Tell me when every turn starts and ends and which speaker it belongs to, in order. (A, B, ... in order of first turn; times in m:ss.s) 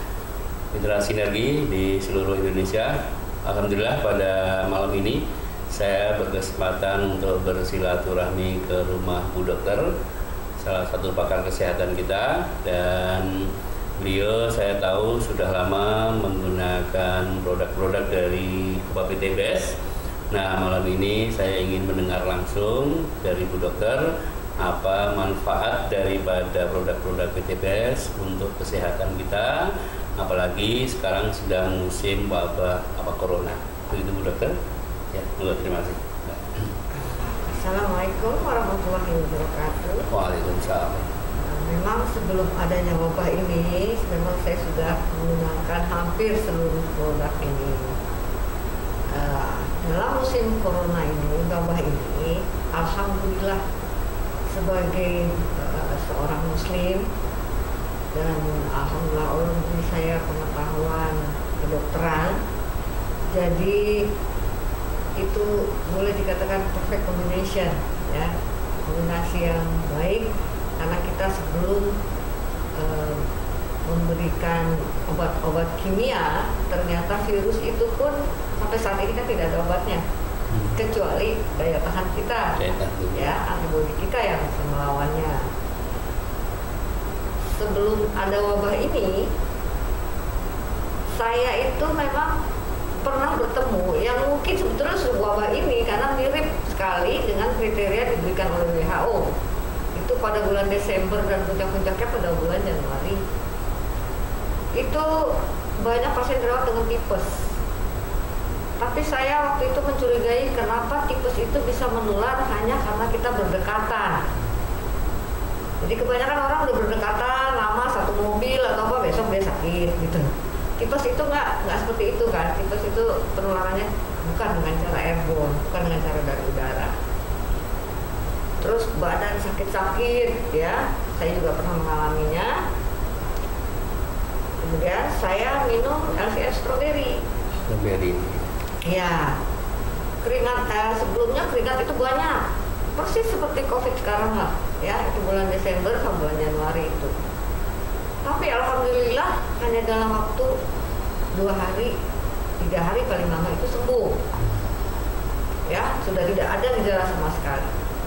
0:00.7-0:09.9 A
0:10.6-0:19.8 A
0:20.3-0:24.1 A
0:24.6-0:34.6 A
0:35.1-0:36.7 A
0:36.9-0:40.1 B
0:40.1-0:41.1 A
0:41.4-0:48.0 B
0:49.1-0:53.6 B
0:54.5-0:57.1 B
0:58.1-1:02.4 B
1:03.3-1:04.0 B
1:05.2-1:08.3 B
1:08.9-1:11.9 B
1:12.7-1:13.2 B
1:13.8-1:20.0 B
1:20.7-1:22.6 B
1:22.6-1:23.3 A
1:23.1-1:25.4 B
1:27.5-1:29.3 B
1:31.2-1:32.3 B
1:33.0-1:39.3 B
1:39.9-1:43.2 B
1:44.7-1:47.4 B
1:48.8-1:54.2 B
1:55.8-2:06.9 B
2:08.6-2:12.6 B
2:14.6-2:17.2 B
2:17.6-2:18.5 A
2:18.8-2:19.4 B
2:20.2-2:22.4 B
2:23.0-2:27.1 B
2:28.2-2:30.5 B
2:31.3-2:31.9 B
2:32.6-2:34.2 B
2:35.7-2:37.7 B